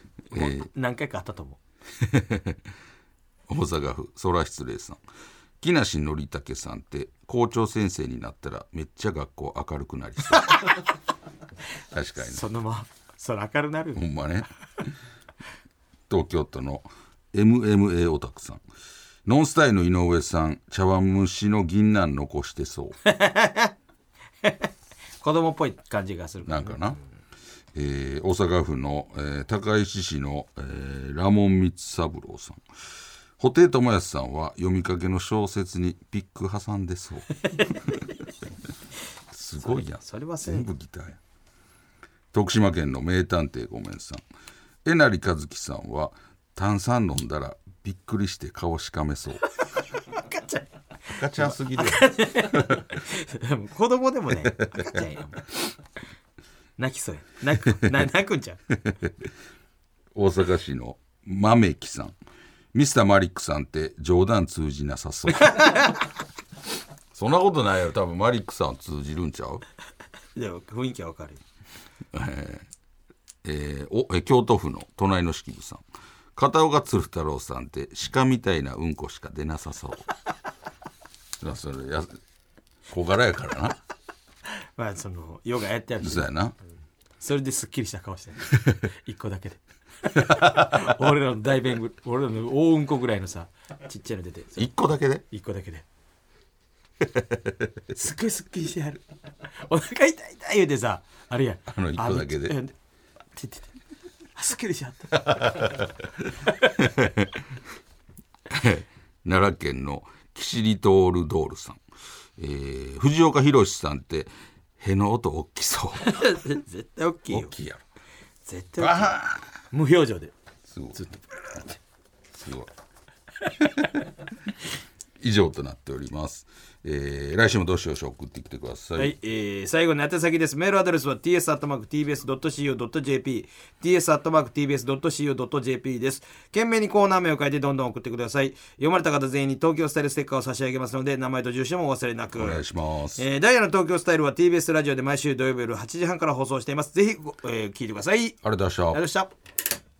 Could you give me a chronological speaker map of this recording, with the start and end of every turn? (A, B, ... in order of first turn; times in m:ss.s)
0:00.3-0:00.7 A
0:00.3-0:01.6 B
0:02.0-0:02.6 A
0:03.5-0:05.0 A
0:05.6-0:10.6 A
0:11.9-0:12.4 A
0:12.2-0:14.0 B
0:14.0-0:14.5 A
0:16.1-0:18.6 A
0:19.3-0:23.0 A
0:23.0-0:23.7 B
0:24.4-0:24.7 B
0:25.2-0:27.0 B
0:26.4-0:27.0 A
0:27.8-0:32.6 A
0:33.4-0:37.3 A
0:39.3-0:41.2 A
0:39.6-0:40.7 B
0:42.3-0:44.2 A
0:44.8-0:49.4 A
0:50.1-0:55.6 B
0:51.2-0:52.8 A
0:56.8-0:58.6 B
0:58.8-0:59.3 A
1:00.1-1:02.2 A
1:02.7-1:05.9 A
1:05.4-1:06.0 B
1:07.1-1:09.6 A
1:10.4-1:11.4 B
1:12.1-1:12.7 A
1:13.4-1:15.8 A
1:16.4-1:20.1 A
1:21.4-1:22.2 A
1:22.9-1:23.8 A
1:24.8-1:26.3 B
1:26.0-1:26.6 A
1:27.2-1:34.7 B
1:30.2-1:30.9 A
1:34.6-1:35.2 A
1:35.3-1:35.8 B
1:37.0-1:37.8 A
1:38.0-1:42.8 B
1:41.7-1:42.6 A
1:43.4-1:43.7 B
1:44.4-1:45.9 B
1:45.3-1:45.9 A
1:46.4-1:46.7 B
1:46.8-1:47.4 A
1:48.5-1:51.8 A
1:52.4-1:56.3 A
1:56.0-1:57.5 B
1:57.3-1:57.8 A
1:58.5-1:59.2 B
1:58.8-1:59.5 A
1:59.7-2:00.3 B
2:00.7-2:01.2 A
2:01.0-2:01.8 B
2:02.3-2:02.7 A
2:03.6-2:03.9 A
2:05.2-2:09.2 A
2:09.0-2:22.6 B
2:22.4-2:23.2 A
2:23.2-2:28.4 B
2:28.4-2:29.0 A
2:28.9-2:29.3 B